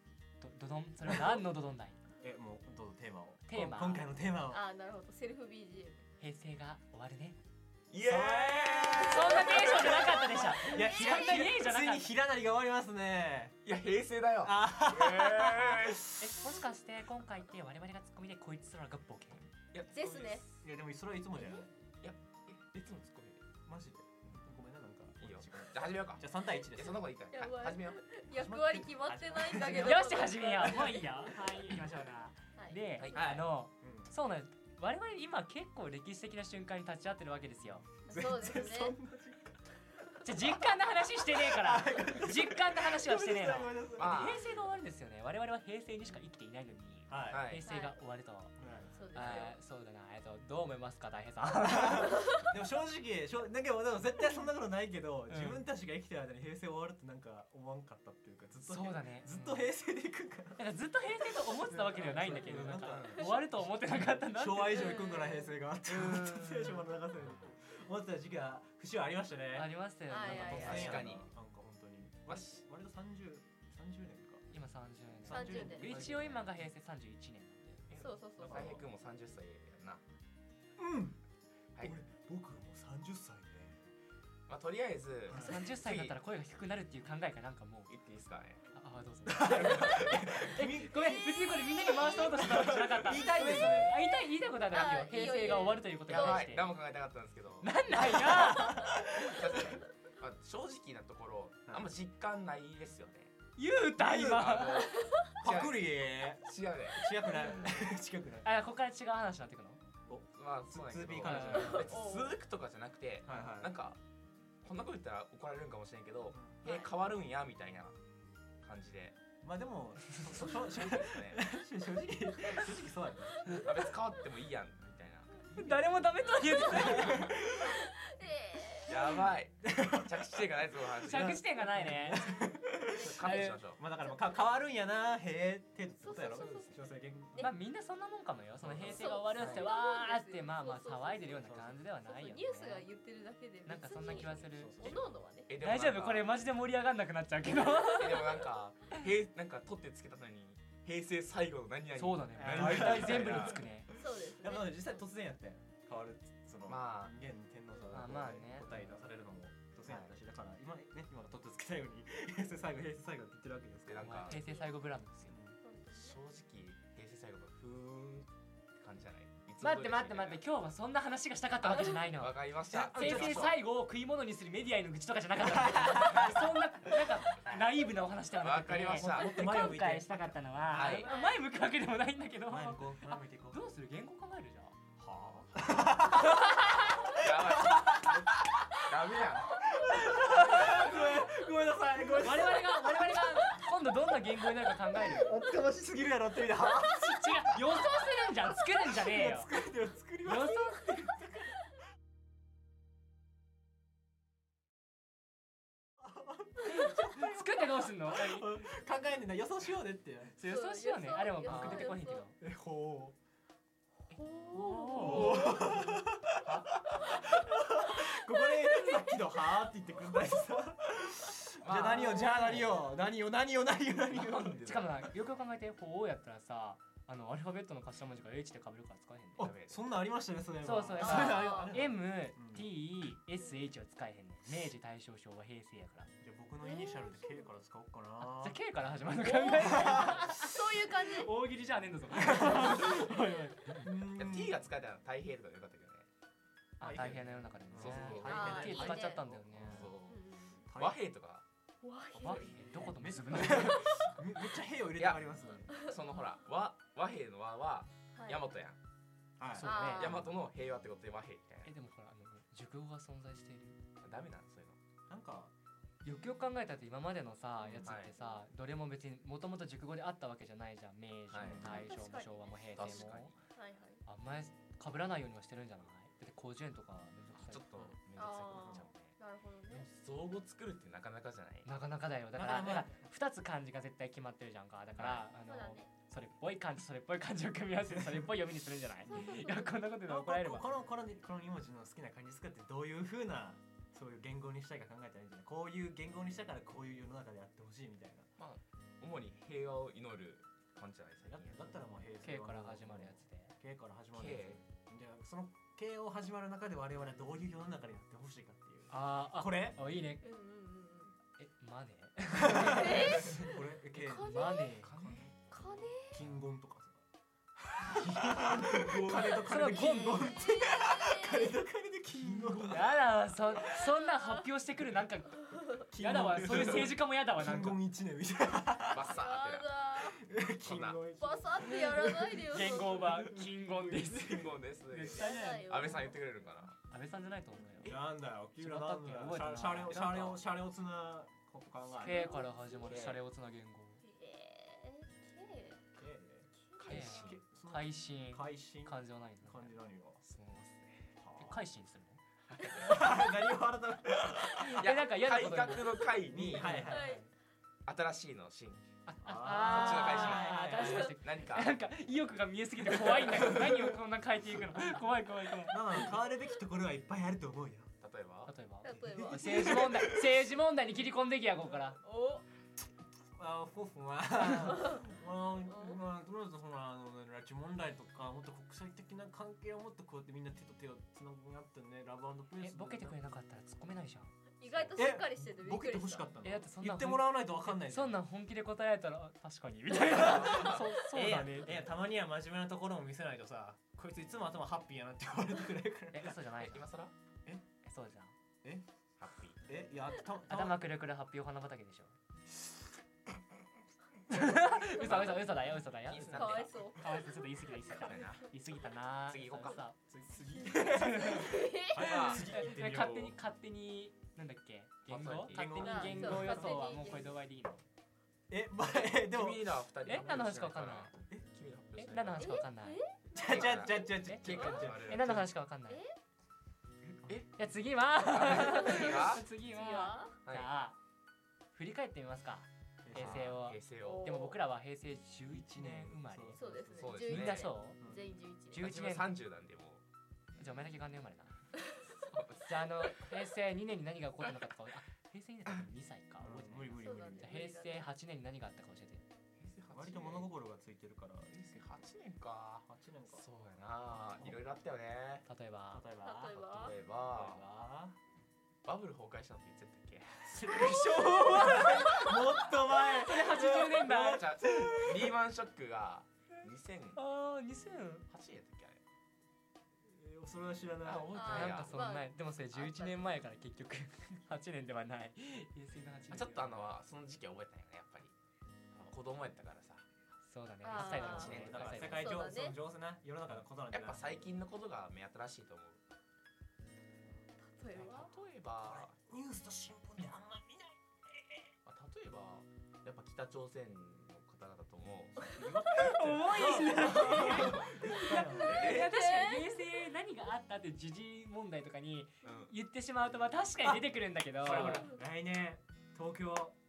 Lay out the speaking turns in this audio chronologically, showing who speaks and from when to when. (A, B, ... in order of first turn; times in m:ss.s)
0:00.4-0:02.0 A
0:02.2-0:04.6 B
0:03.5-0:04.0 A
0:04.5-0:06.0 C
0:06.2-0:07.4 A
0:07.9-0:10.2 D
0:08.0-0:13.6 B
0:09.0-0:12.1 A
0:09.0-0:11.5 C
0:13.6-0:16.3 D
0:14.4-0:15.8 B
0:16.2-0:19.5 A
0:19.7-0:20.5 D
0:19.9-0:20.4 C
0:20.6-0:21.7 B
0:22.0-0:23.4 D
0:23.6-0:27.1 B
0:25.2-0:28.0 D
0:27.3-0:31.3 C
0:28.4-0:31.0 B
0:29.7-0:37.9 A
0:32.6-0:33.5 C
0:33.0-0:33.4 D
0:33.8-0:34.1 B
0:38.0-0:39.0 C
0:38.1-0:39.6 B
0:40.2-0:48.5 A
0:41.3-0:44.4 B
0:44.0-0:44.5 D
0:47.1-0:47.5 B
0:47.3-0:47.6 D
0:47.6-0:48.0 C
0:48.6-0:49.0 B
0:48.9-0:49.6 C
0:49.1-0:52.3 A
0:51.7-1:00.6 B
0:55.3-0:55.6 A
0:58.6-0:59.7 A
1:00.6-1:05.0 A
1:01.6-1:03.4 B
1:02.4-1:03.2 D
1:04.2-1:14.4 B
1:04.7-1:05.5 C
1:05.8-1:06.8 A
1:09.5-1:11.0 A
1:10.1-1:11.0 C
1:10.4-1:11.3 D
1:12.3-1:12.6 D
1:14.5-1:17.9 A
1:15.2-1:16.4 B
1:15.3-1:15.9 C
1:15.8-1:16.4 D
1:17.9-1:20.0 D
1:18.0-1:18.8 C
1:18.4-1:18.8 B
1:20.8-1:21.2 B
1:21.8-1:23.8 B
1:24.5-1:26.2 D
1:25.3-1:25.7 B
1:25.3-1:27.9 A
1:27.9-1:28.7 D
1:28.7-1:36.6 A
1:29.3-1:31.2 B
1:29.7-1:30.1 C
1:30.9-1:32.5 C
1:31.8-1:34.0 B
1:33.2-1:33.9 C
1:34.4-1:36.5 C
1:36.1-1:43.3 D
1:37.6-1:39.1 A
1:38.0-1:39.2 B
1:43.6-1:45.1 A
1:44.0-1:44.5 B
1:44.2-1:47.6 D
1:45.4-1:48.5 B
1:48.4-1:49.8 A
1:50.1-1:52.0 B
1:50.3-1:54.0 D
1:51.2-1:51.7 A
1:51.5-1:52.4 C
1:53.2-1:53.8 B
1:54.6-1:58.0 D
1:56.3-1:56.6 B
1:56.6-1:56.9 C
1:58.6-1:59.2 D
1:59.4-2:03.7 B
2:00.4-2:01.4 D
2:03.5-2:05.4 D
2:05.5-2:07.4 A
2:06.2-2:09.3 C
2:06.7-2:07.3 D
2:08.9-2:11.4 D
2:09.6-2:10.0 B
2:11.0-2:12.5 A
2:11.0-2:17.5 B
2:12.9-2:13.8 D
2:13.2-2:13.6 A
2:14.0-2:14.3 C
2:16.0-2:16.8 C
2:17.4-2:22.9 A
2:18.6-2:19.7 B
2:18.6-2:19.0 D
2:18.8-2:25.5 C
2:21.4-2:21.8 B
2:23.6-2:25.0 A
2:24.1-2:25.2 B
2:25.5-2:26.4 D
2:25.6-2:28.4 A
2:27.8-2:33.7 D
2:31.9-2:33.9 A
2:32.4-2:33.6 B
2:34.0-2:34.8 C
2:34.4-2:44.1 B
2:36.6-2:37.1 D
2:37.9-2:39.0 A
2:39.8-2:40.2 D
2:43.8-2:44.4 D
2:44.0-2:45.4 A
2:44.3-2:44.7 C
2:45.3-2:45.6 B
2:45.6-2:46.2 C
2:45.9-2:50.4 D
2:49.6-2:52.4 A
2:51.6-2:53.6 D
2:52.7-2:53.6 B
2:52.9-3:04.7 A
2:55.5-2:56.3 B
2:57.3-2:57.9 B
2:58.4-2:59.5 D
2:58.9-3:00.8 B
3:00.7-3:01.1 D
3:01.0-3:01.4 C
3:02.5-3:03.6 B
3:05.0-3:08.2 B
3:07.1-3:10.0 D
3:09.6-3:13.0 B
3:10.6-3:11.1 A
3:12.1-3:15.4 A
3:15.0-3:18.0 B
3:16.6-3:19.5 A
3:18.8-3:21.3 B
3:20.2-3:21.0 A
3:26.5-3:30.4 B
3:26.6-3:28.6 A
3:30.4-3:32.4 A
3:30.4-3:32.2 C
3:31.4-3:31.9 D
3:32.4-3:33.2 B
3:34.1-3:36.0 C
3:34.6-3:35.6 A
3:34.6-3:44.6 B
3:35.0-3:35.3 D
3:38.0-3:38.8 C
3:41.6-3:42.6 D
3:41.9-3:42.8 C
3:44.1-3:45.1 D
3:44.6-3:49.5 A
3:49.4-3:52.7 B
3:49.4-3:49.8 D
3:50.6-3:56.1 A
3:51.0-3:51.8 C
3:56.2-3:58.6 B
3:56.6-3:57.6 C
3:58.2-4:03.9 A
3:59.1-4:01.3 C
3:59.6-4:00.0 B
4:02.4-4:03.0 C
4:03.8-4:04.6 B
4:04.0-4:06.1 D
4:06.8-4:09.9 A
4:06.8-4:09.0 B
4:07.7-4:10.2 D
4:08.2-4:09.3 C
4:09.5-4:09.9 B
4:10.1-4:10.7 C
4:10.7-4:11.0 B
4:10.7-4:11.4 D
4:11.8-4:12.8 C
4:12.1-4:13.9 A
4:12.7-4:15.7 B
4:13.5-4:14.1 C
4:15.0-4:18.8 D
4:15.4-4:15.9 C
4:18.1-4:18.5 C
4:19.4-4:19.7 B
4:19.6-4:20.2 A
4:19.6-4:20.3 C
4:19.8-4:21.7 D
4:21.6-4:23.8 A
4:24.0-4:24.8 D
4:25.1-4:25.5 B
4:26.0-4:33.3 A
4:27.8-4:28.1 D
4:28.2-4:28.4 C
4:31.3-4:31.8 D
4:31.4-4:31.9 B
4:31.6-4:34.0 C
4:32.7-4:33.4 D
4:34.0-4:37.6 A
4:37.3-4:39.2 D
4:38.1-4:39.9 C
4:38.5-4:38.9 B
4:39.7-4:41.7 D
4:41.6-4:50.6 A
4:42.3-4:43.0 B
4:44.9-4:45.3 D
4:45.4-4:45.9 C
4:47.9-4:48.3 B
4:49.0-4:49.8 C
4:50.1-4:58.3 B
4:58.4-5:01.8 D
5:01.3-5:09.8 B
5:02.2-5:03.5 A
5:04.1-5:04.6 D
5:08.9-5:10.2 A
5:10.2-5:11.2 C
5:11.4-5:13.4 A
5:12.4-5:15.3 B
5:12.5-5:14.8 C
5:14.1-5:14.9 A
5:14.8-5:15.3 D
5:15.5-5:16.2 C
5:16.1-5:17.0 B
5:17.6-5:23.0 B
5:18.4-5:19.3 D
5:19.3-5:20.4 A
5:20.0-5:21.6 C
5:22.3-5:22.8 D
5:22.7-5:27.8 A
5:23.6-5:24.5 C
5:25.9-5:29.1 B
5:26.5-5:26.8 D
5:28.8-5:29.7 D
5:29.0-5:30.2 C
5:30.1-5:33.2 B
5:30.6-5:31.0 D
5:31.2-5:33.0 C
5:32.5-5:35.7 A
5:33.4-5:36.8 D
5:35.1-5:36.2 C
5:36.9-5:38.0 A
5:37.8-5:42.4 B
5:38.5-5:40.2 A
5:39.9-5:40.4 D
5:41.9-5:43.0 C
5:42.0-5:44.0 A
5:42.8-5:43.2 D
5:44.0-5:45.8 C
5:46.0-5:50.2 B
5:46.6-5:47.3 C
5:46.8-5:47.3 D
5:46.8-5:49.7 A
5:50.2-5:51.2 D
5:51.2-5:51.6 B
5:51.4-5:52.2 A
5:52.5-5:53.2 D
5:52.7-5:54.4 B
5:54.2-5:57.0 D
5:54.6-5:57.3 A
5:56.3-5:57.1 B
5:56.7-5:57.2 C
5:57.8-5:58.9 D
5:59.0-6:06.1 A
5:59.2-6:01.1 B
5:59.6-6:01.8 D
6:05.7-6:07.9 B
6:08.0-6:08.5 D
6:08.4-6:12.0 A
6:08.8-6:09.8 C
6:08.9-6:10.4 B
6:12.0-6:12.5 C
6:13.4-6:23.2 B
6:14.7-6:15.0 C
6:15.7-6:16.0 C
6:22.6-6:25.0 A
6:24.6-6:26.2 C
6:25.0-6:28.2 B
6:26.4-6:31.8 A
6:30.0-6:36.4 B
6:30.3-6:30.8 D
6:36.1-6:36.9 A
6:36.6-6:37.1 D
6:37.8-6:38.3 A
6:39.2-6:39.7 D
6:39.6-6:40.8 B
6:40.5-6:42.2 A
6:44.3-6:51.6 A
6:44.8-6:47.0 D
6:46.3-6:47.2 C
6:47.9-6:48.5 D
6:49.3-6:49.8 D
6:50.1-6:53.4 B
6:50.4-6:52.0 C
6:52.0-6:52.5 D
6:52.2-6:57.8 A
6:55.1-6:55.9 D
6:55.5-6:56.7 B
6:55.5-6:57.3 C
6:58.5-6:59.8 B
6:58.9-7:02.6 D
7:00.0-7:01.1 A
7:02.0-7:03.0 A
7:02.4-7:04.9 C
7:03.3-7:05.5 B
7:03.3-7:05.4 D
7:04.2-7:06.0 A
7:05.9-7:06.2 C
7:07.5-7:11.0 A
7:08.3-7:09.4 D
7:08.5-7:10.4 C
7:11.7-7:18.0 A
7:13.0-7:13.6 B
7:13.1-7:14.4 D
7:14.0-7:14.6 C
7:15.5-7:17.2 B
7:16.6-7:18.8 C
7:17.0-7:17.7 D
7:18.0-7:18.3 B
7:18.7-7:19.3 A
7:18.8-7:20.0 D
7:20.6-7:21.6 A
7:22.2-7:23.1 D
7:22.6-7:29.2 A
7:26.4-7:27.5 B
7:27.0-7:28.1 C
7:29.6-7:30.5 D
7:29.9-7:32.0 B
7:31.6-7:35.4 D
7:32.8-7:33.4 B
7:35.5-7:36.0 A
7:35.9-7:38.2 B
7:36.2-7:37.0 C
7:36.5-7:37.6 D
7:38.8-7:40.8 D
7:40.4-7:44.5 A
7:40.6-7:45.3 B
7:41.7-7:42.4 C
7:44.0-7:47.2 D
7:46.5-7:48.3 A
7:48.3-7:49.0 D
7:50.0-7:51.3 B
7:51.0-7:52.0 D
7:51.3-7:53.4 C
7:51.5-7:56.9 A
7:56.3-7:58.3 D
7:58.9-8:00.0 D
8:00.4-8:02.3 A
8:00.8-8:02.8 C
8:00.9-8:02.2 D
8:01.3-8:04.4 B
8:03.4-8:06.0 D
8:07.6-8:08.3 C
8:07.9-8:09.1 D
8:08.8-8:11.0 B
8:11.8-8:15.6 D
8:15.5-8:19.0 B
8:16.0-8:25.1 A
8:16.6-8:19.1 D
8:18.6-8:20.0 C
8:22.4-8:22.7 D
8:24.6-8:26.8 B